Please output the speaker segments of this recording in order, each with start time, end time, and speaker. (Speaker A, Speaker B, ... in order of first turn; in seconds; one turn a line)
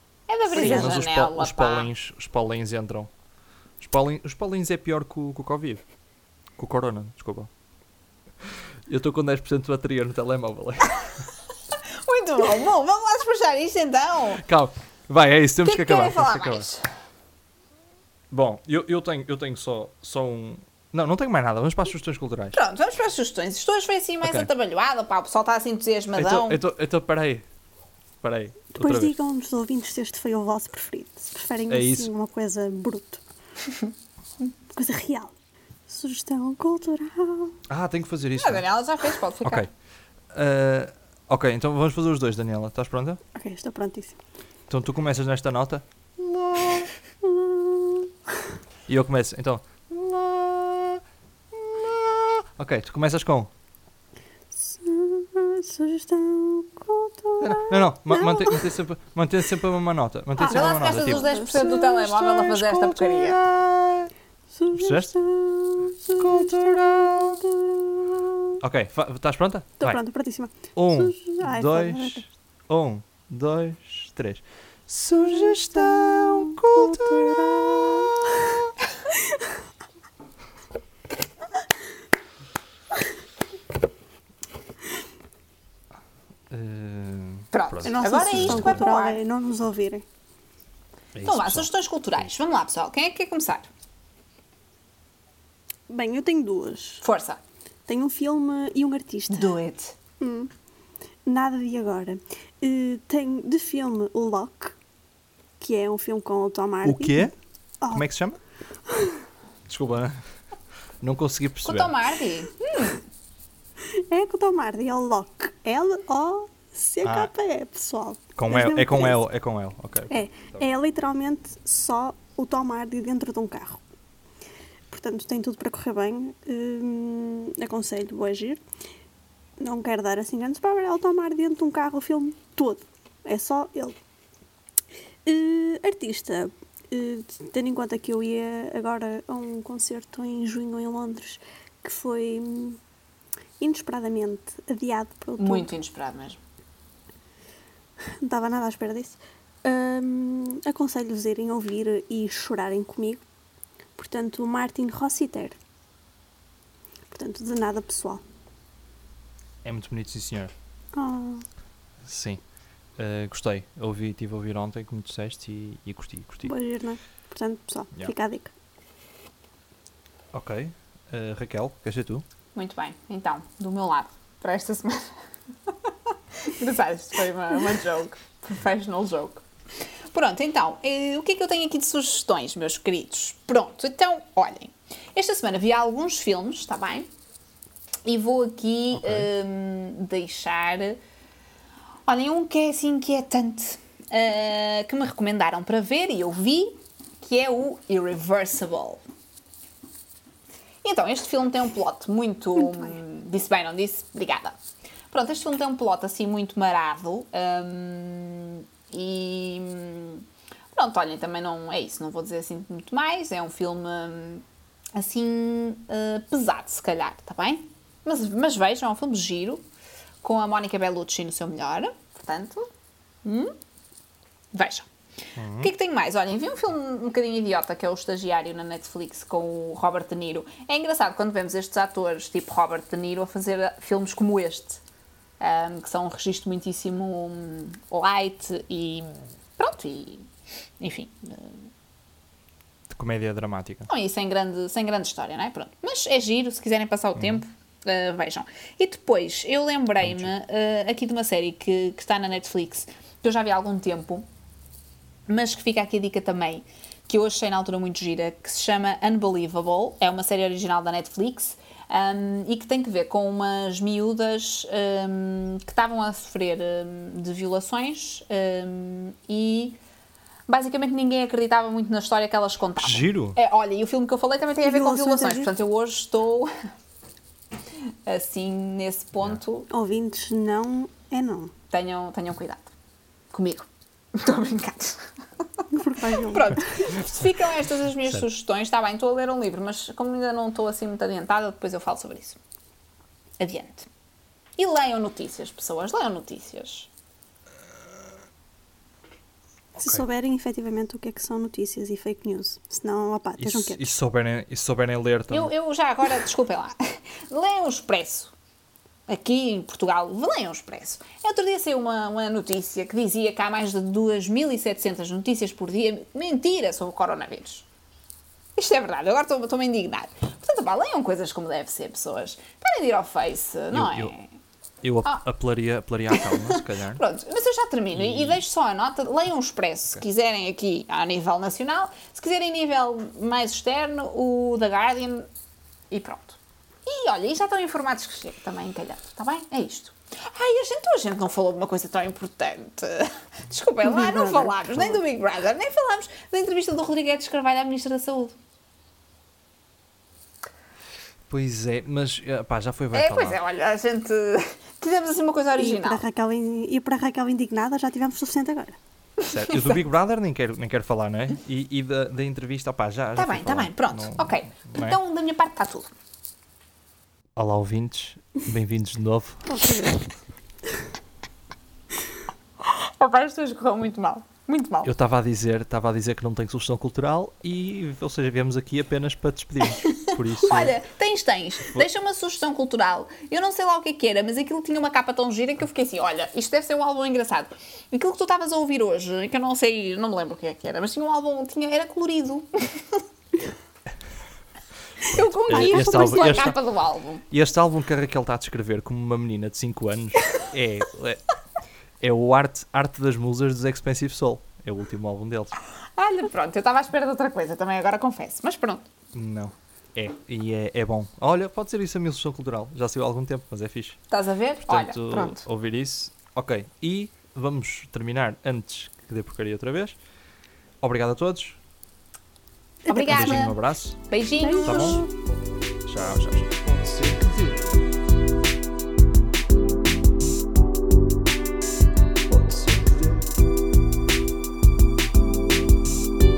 Speaker A: 0.3-1.9
Speaker B: 0.5-1.0
Speaker C: 0.5-3.1
Speaker C: 3.8-5.8
Speaker C: 6.6-7.5
Speaker C: 8.9-11.2
Speaker A: 11.8-14.4
Speaker C: 14.4-16.7
Speaker A: 15.6-16.9
Speaker C: 18.3-22.6
Speaker A: 22.5-26.6
Speaker C: 24.2-24.5
Speaker C: 26.1-27.4
Speaker C: 28.2-29.1
Speaker B: 28.7-33.2
Speaker C: 31.7-32.1
Speaker B: 34.7-35.3
Speaker B: 35.9-37.6
Speaker C: 37.7-38.6
Speaker A: 38.4-39.6
Speaker C: 40.3-43.2
Speaker B: 43.3-44.2
Speaker C: 44.7-46.9
Speaker B: 47.2-48.1
Speaker C: 48.9-53.5
Speaker B: 54.5-58.7
Speaker C: 57.4-64.1
Speaker B: 60.4-62.5
Speaker A: 60.4-63.4
Speaker B: 64.5-68.6
Speaker C: 64.7-65.2
Speaker C: 66.1-67.4
Speaker C: 68.6-70.0
Speaker B: 69.8-72.2
Speaker C: 70.8-78.4
Speaker B: 75.3-79.5
Speaker C: 86.5-88.8
Speaker A: 87.5-89.2
Speaker B: 87.8-90.0
Speaker C: 91.1-92.3
Speaker A: 91.2-93.7
Speaker B: 95.9-97.0
Speaker A: 97.0-97.4
Speaker B: 97.9-99.5
Speaker A: 99.3-99.9
Speaker B: 100.2-100.5
Speaker B: 101.2-104.8
Speaker B: 105.6-108.0
Speaker C: 106.8-107.3
Speaker C: 107.9-108.4
Speaker B: 108.9-109.2
Speaker C: 109.7-110.2
Speaker C: 111.0-112.0
Speaker A: 111.6-113.0
Speaker B: 113.9-119.2
Speaker C: 117.0-117.3
Speaker C: 118.3-120.6
Speaker B: 120.1-123.8
Speaker B: 124.9-128.6
Speaker B: 129.6-134.0
Speaker B: 135.2-142.8
Speaker B: 143.6-145.7
Speaker A: 145.4-146.4
Speaker B: 148.1-153.2
Speaker B: 153.9-155.6
Speaker B: 157.1-158.2
Speaker C: 159.6-160.5
Speaker B: 160.9-161.4
Speaker C: 162.0-162.4
Speaker C: 163.0-166.5
Speaker B: 166.4-168.5
Speaker C: 170.3-172.2
Speaker A: 172.5-175.1
Speaker A: 175.7-179.4
Speaker A: 180.1-187.1
Speaker A: 188.0-191.0
Speaker C: 188.9-189.3
Speaker A: 192.1-199.0
Speaker A: 200.8-204.6
Speaker A: 205.1-214.4
Speaker A: 214.9-219.6
Speaker A: 220.2-222.7
Speaker A: 223.2-223.6
Speaker A: 224.5-224.9
Speaker C: 225.3-225.7
Speaker A: 225.6-234.8
Speaker A: 235.4-240.3
Speaker A: 240.8-241.7
Speaker C: 242.9-243.9
Speaker A: 243.9-254.2
Speaker C: 247.2-247.4
Speaker C: 250.0-250.3
Speaker A: 255.3-269.8
Speaker A: 270.5-276.5
Speaker C: 272.8-273.4
Speaker B: 274.6-275.5
Speaker A: 278.1-279.7
Speaker B: 279.7-281.5
Speaker A: 281.7-282.7
Speaker A: 283.3-285.1
Speaker B: 285.7-286.9
Speaker A: 286.3-292.4
Speaker A: 293.4-293.9
Speaker A: 294.6-296.9
Speaker B: 299.8-303.9
Speaker C: 303.4-305.5
Speaker A: 305.3-308.3
Speaker A: 309.1-317.6
Speaker A: 318.6-324.3
Speaker C: 323.7-324.1
Speaker C: 324.8-327.0
Speaker A: 326.1-335.3
Speaker C: 327.9-328.4
Speaker A: 335.9-348.3
Speaker B: 343.8-345.0
Speaker C: 351.3-353.4
Speaker A: 352.9-356.0
Speaker B: 355.6-358.8
Speaker C: 359.2-365.0
Speaker A: 363.2-365.9
Speaker C: 367.4-369.5
Speaker B: 369.5-370.0
Speaker A: 372.6-374.9
Speaker C: 374.8-380.8
Speaker A: 379.8-393.0
Speaker A: 395.1-397.2
Speaker C: 395.1-396.6
Speaker B: 395.5-396.5
Speaker C: 397.3-401.2
Speaker C: 402.0-405.5
Speaker A: 405.9-408.9
Speaker C: 409.1-414.0
Speaker A: 414.1-415.4
Speaker C: 414.6-420.0
Speaker C: 420.8-421.6
Speaker B: 422.9-423.5
Speaker A: 422.9-423.6
Speaker C: 423.0-424.0
Speaker A: 424.1-425.0
Speaker B: 424.4-425.1
Speaker C: 424.6-425.0
Speaker C: 425.9-427.7
Speaker C: 432.2-433.2